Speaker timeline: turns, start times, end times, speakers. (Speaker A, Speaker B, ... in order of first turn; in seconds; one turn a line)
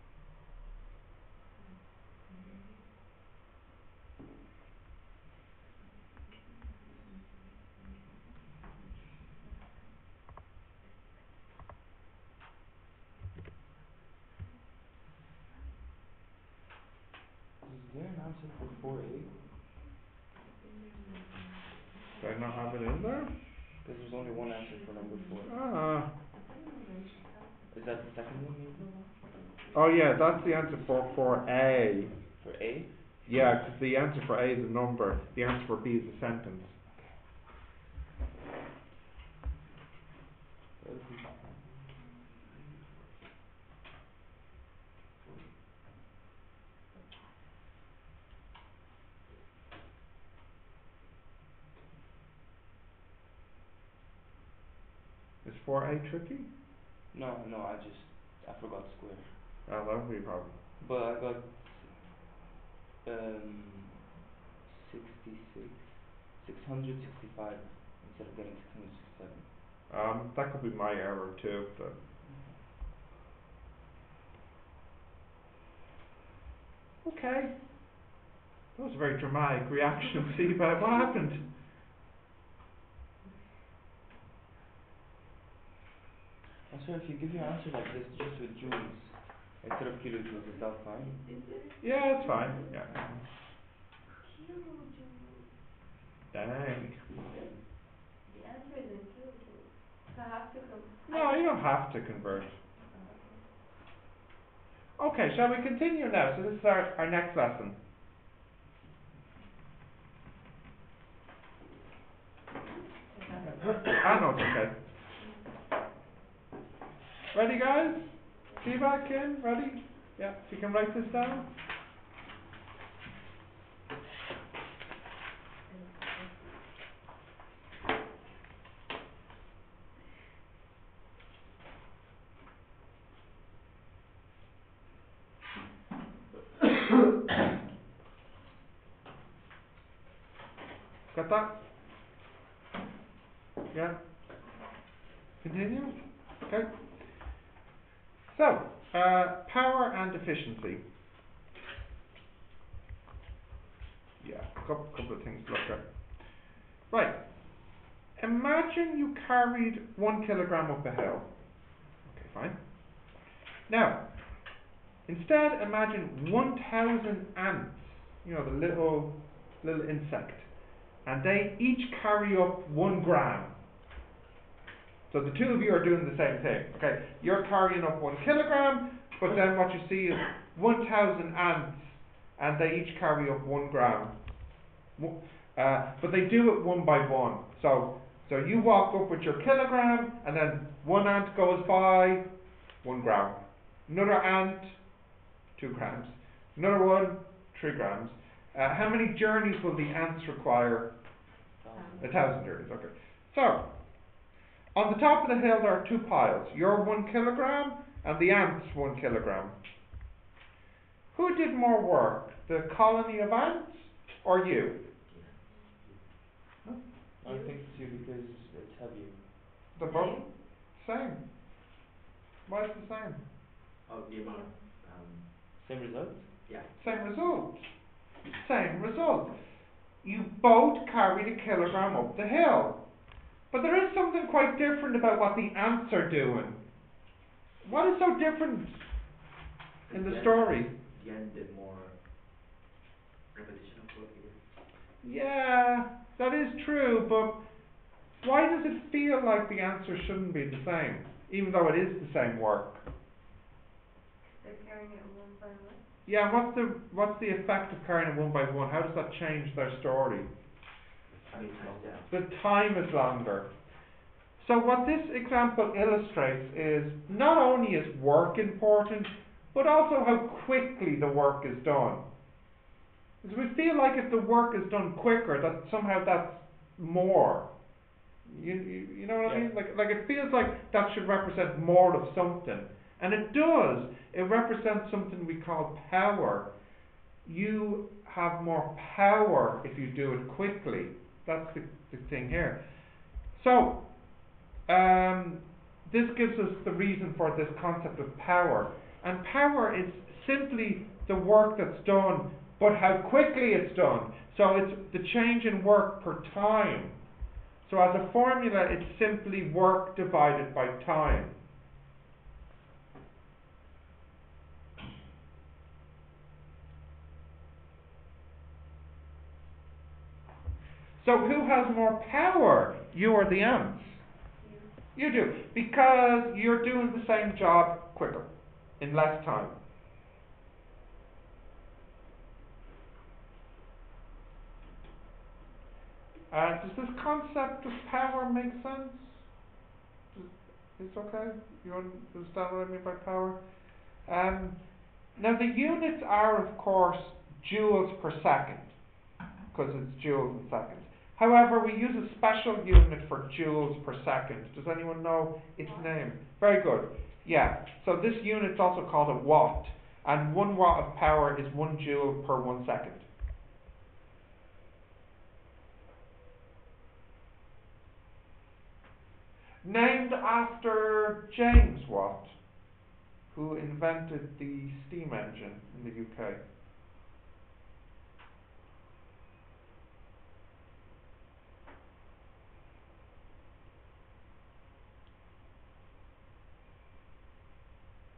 Speaker A: 1.6-2.8
Speaker A: 6.9-7.3
Speaker B: 17.6-19.3
Speaker A: 20.5-22.3
Speaker C: 22.2-23.3
Speaker B: 23.8-25.5
Speaker A: 24.8-25.2
Speaker C: 25.5-26.1
Speaker A: 26.3-27.8
Speaker B: 27.7-28.9
Speaker A: 28.7-29.9
Speaker C: 29.7-32.1
Speaker B: 32.4-32.9
Speaker C: 33.3-36.8
Speaker B: 40.8-41.5
Speaker D: 42.4-43.1
Speaker C: 55.4-56.5
Speaker B: 57.1-59.3
Speaker C: 59.7-60.5
Speaker B: 60.8-62.1
Speaker B: 63.0-64.0
Speaker B: 64.7-69.5
Speaker C: 69.9-72.0
Speaker B: 72.3-72.6
Speaker C: 77.0-77.5
Speaker C: 78.8-81.4
Speaker B: 86.7-91.2
Speaker A: 91.0-92.6
Speaker C: 91.8-93.2
Speaker A: 94.2-95.5
Speaker C: 96.3-97.0
Speaker A: 98.3-101.5
Speaker C: 101.1-102.5
Speaker A: 102.8-103.4
Speaker C: 105.0-107.8
Speaker A: 113.1-114.0
Speaker C: 113.5-114.7
Speaker C: 117.3-121.5
Speaker A: 125.7-126.4
Speaker C: 141.1-141.5
Speaker C: 143.7-144.0
Speaker C: 145.4-146.7
Speaker C: 148.3-150.8
Speaker C: 154.2-155.8
Speaker C: 156.9-157.2
Speaker C: 158.2-161.3
Speaker C: 162.1-162.6
Speaker C: 163.7-164.0
Speaker C: 165.1-170.5
Speaker C: 171.1-173.5
Speaker C: 175.1-184.2
Speaker C: 185.0-192.2
Speaker C: 192.8-194.8
Speaker C: 195.6-200.9
Speaker B: 201.6-202.1
Speaker A: 201.7-202.1
Speaker C: 202.0-203.7
Speaker C: 204.8-209.6
Speaker C: 211.1-214.8
Speaker D: 215.1-216.0
Speaker B: 217.2-219.3
Speaker A: 217.2-217.7
Speaker C: 219.8-221.2
Speaker A: 219.8-220.3
Speaker C: 222.5-223.2
Speaker D: 223.9-225.3
Speaker A: 224.2-224.5
Speaker B: 225.6-226.3
Speaker D: 226.5-226.7
Speaker C: 226.8-227.6
Speaker C: 228.4-229.4
Speaker C: 230.0-232.8
Speaker C: 233.5-236.6
Speaker C: 237.6-238.8
Speaker D: 239.9-242.0
Speaker C: 239.9-240.7
Speaker D: 243.3-244.4
Speaker C: 245.0-247.4
Speaker C: 248.2-252.8
Speaker A: 254.4-255.8
Speaker C: 256.1-260.3
Speaker D: 261.1-262.2
Speaker B: 261.4-261.8
Speaker C: 262.1-263.5
Speaker C: 264.4-272.1
Speaker C: 273.2-277.5
Speaker C: 278.3-286.5
Speaker B: 279.2-279.5
Speaker C: 287.2-292.6
Speaker C: 293.3-293.8
Speaker C: 294.7-307.0
Speaker C: 307.7-311.4
Speaker C: 321.0-324.0
Speaker A: 324.4-324.7
Speaker C: 324.9-328.3
Speaker C: 328.8-329.6
Speaker C: 336.3-339.2
Speaker C: 340.1-343.4
Speaker C: 344.0-344.6
Speaker C: 345.2-348.7
Speaker C: 349.5-363.1
Speaker A: 355.6-356.0
Speaker C: 369.6-372.4
Speaker C: 373.3-376.4